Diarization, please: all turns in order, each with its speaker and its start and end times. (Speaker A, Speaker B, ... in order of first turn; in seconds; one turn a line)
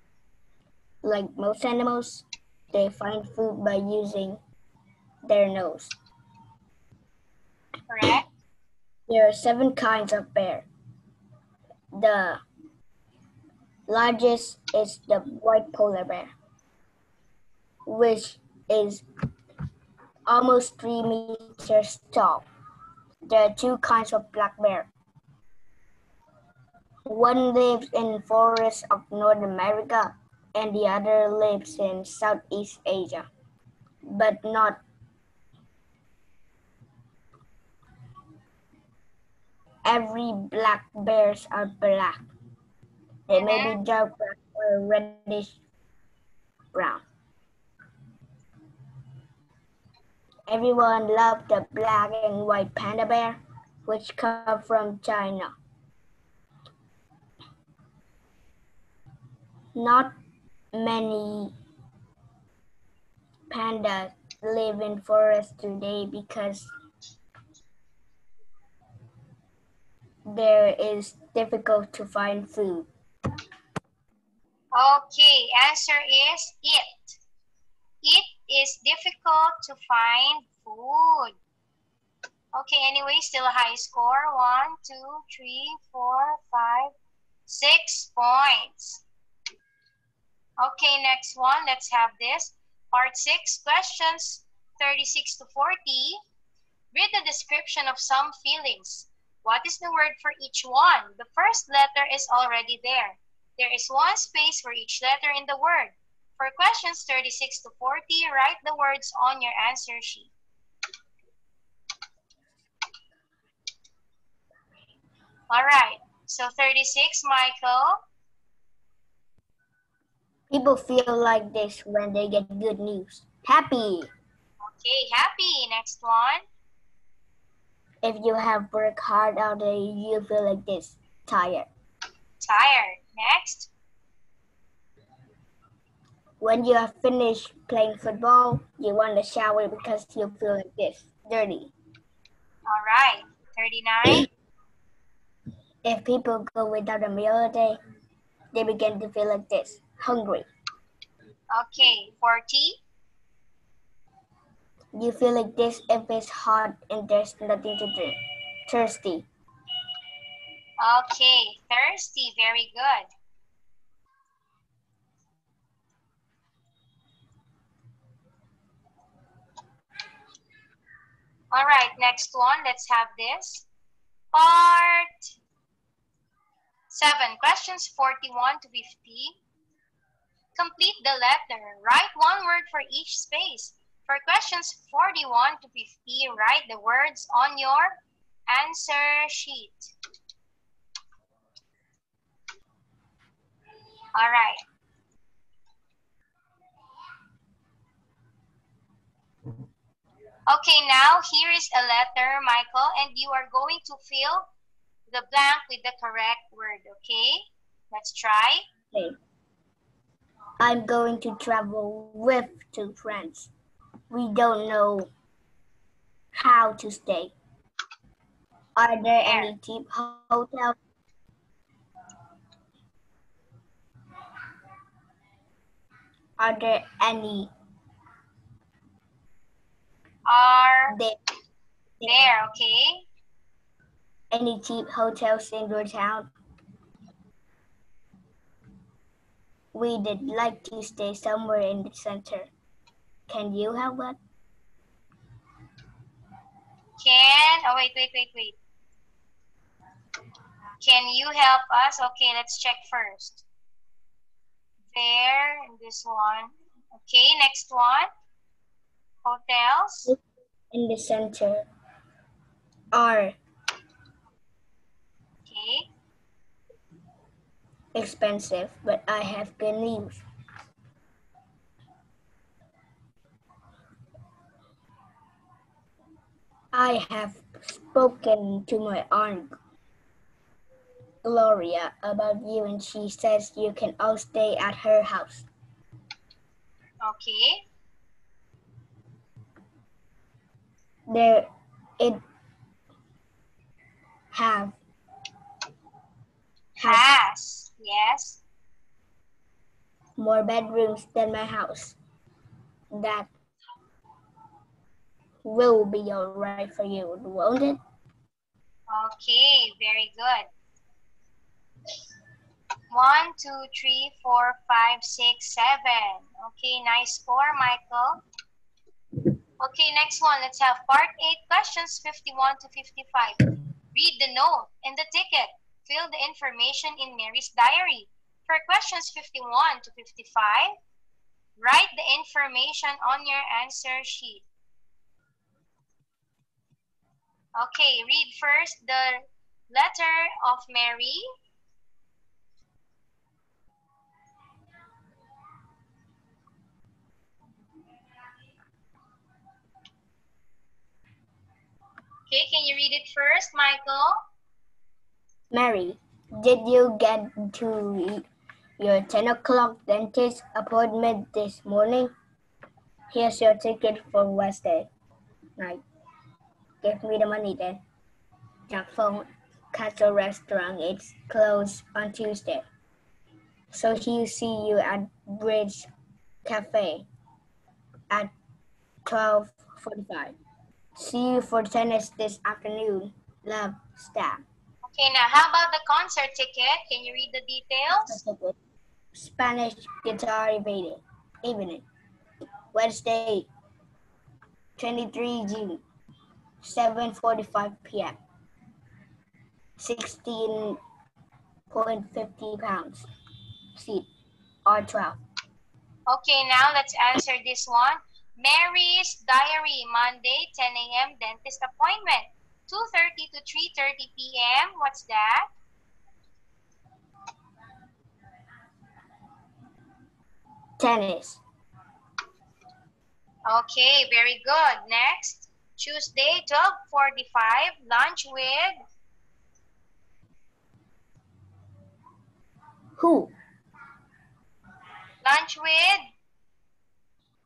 Speaker A: 1.0-4.4
Speaker A: 5.2-6.0
Speaker B: 7.9-8.3
Speaker A: 9.1-10.7
Speaker A: 11.9-12.4
Speaker A: 13.9-16.3
Speaker A: 17.9-19.0
Speaker A: 20.3-22.4
Speaker A: 23.2-24.9
Speaker A: 27.1-33.3
Speaker A: 34.0-34.8
Speaker A: 39.9-42.3
Speaker A: 43.3-45.6
Speaker B: 43.4-43.8
Speaker A: 46.7-47.0
Speaker A: 50.5-55.5
Speaker A: 59.8-60.1
Speaker A: 60.7-61.5
Speaker A: 63.5-66.7
Speaker A: 70.3-72.9
Speaker B: 74.7-77.2
Speaker B: 78.0-81.4
Speaker B: 82.6-86.9
Speaker B: 87.5-89.0
Speaker B: 90.6-96.2
Speaker B: 96.9-110.3
Speaker B: 115.5-118.0
Speaker A: 120.5-124.1
Speaker B: 124.7-126.4
Speaker A: 128.0-131.7
Speaker B: 132.4-133.7
Speaker A: 136.4-141.7
Speaker B: 142.7-144.3
Speaker A: 145.8-147.8
Speaker A: 148.5-150.5
Speaker B: 151.5-152.8
Speaker A: 154.9-158.2
Speaker A: 158.7-159.3
Speaker B: 160.8-163.1
Speaker B: 171.5-173.7
Speaker B: 174.3-175.3
Speaker B: 176.9-179.4
Speaker B: 180.6-189.9
Speaker B: 194.2-194.6
Speaker B: 200.5-204.5
Speaker B: 205.1-208.6
Speaker A: 210.6-213.5
Speaker A: 214.1-215.1
Speaker A: 216.3-217.3
Speaker A: 218.8-220.8
Speaker B: 219.2-219.5
Speaker A: 226.4-227.5
Speaker B: 230.3-231.0
Speaker A: 230.9-231.2
Speaker A: 232.0-232.3
Speaker B: 232.1-233.1
Speaker A: 234.3-236.3
Speaker A: 239.7-242.5
Speaker A: 243.3-244.2
Speaker B: 247.0-248.6
Speaker B: 250.8-253.4
Speaker B: 254.9-258.1
Speaker B: 259.2-260.1
Speaker A: 260.7-261.7
Speaker A: 262.9-263.4
Speaker B: 265.5-265.9
Speaker A: 267.9-270.2
Speaker A: 276.7-279.5
Speaker A: 281.2-285.5
Speaker B: 287.0-287.6
Speaker A: 291.1-292.2
Speaker A: 294.3-294.8
Speaker A: 296.8-297.1
Speaker B: 296.8-298.4
Speaker A: 300.2-302.0
Speaker A: 302.9-303.3
Speaker A: 305.4-307.8
Speaker B: 308.9-310.5
Speaker B: 312.9-318.2
Speaker B: 319.6-330.7
Speaker B: 331.6-334.5
Speaker B: 337.6-341.2
Speaker B: 352.3-354.2
Speaker A: 355.5-358.3
Speaker A: 358.8-362.1
Speaker A: 363.1-364.9
Speaker A: 365.6-365.8
Speaker A: 366.8-367.8
Speaker A: 368.7-372.6
Speaker A: 373.7-375.9
Speaker A: 376.4-377.1
Speaker A: 379.1-380.4
Speaker A: 381.0-384.4
Speaker B: 384.9-388.2
Speaker A: 387.9-388.6
Speaker A: 389.1-391.9
Speaker A: 392.7-393.5
Speaker A: 394.8-395.8
Speaker A: 396.6-398.2
Speaker A: 399.8-400.8
Speaker A: 401.7-403.1
Speaker A: 403.8-404.1
Speaker A: 404.7-405.2
Speaker B: 406.1-415.5
Speaker A: 420.8-421.4
Speaker B: 423.5-428.8
Speaker A: 433.0-433.3
Speaker B: 435.2-436.0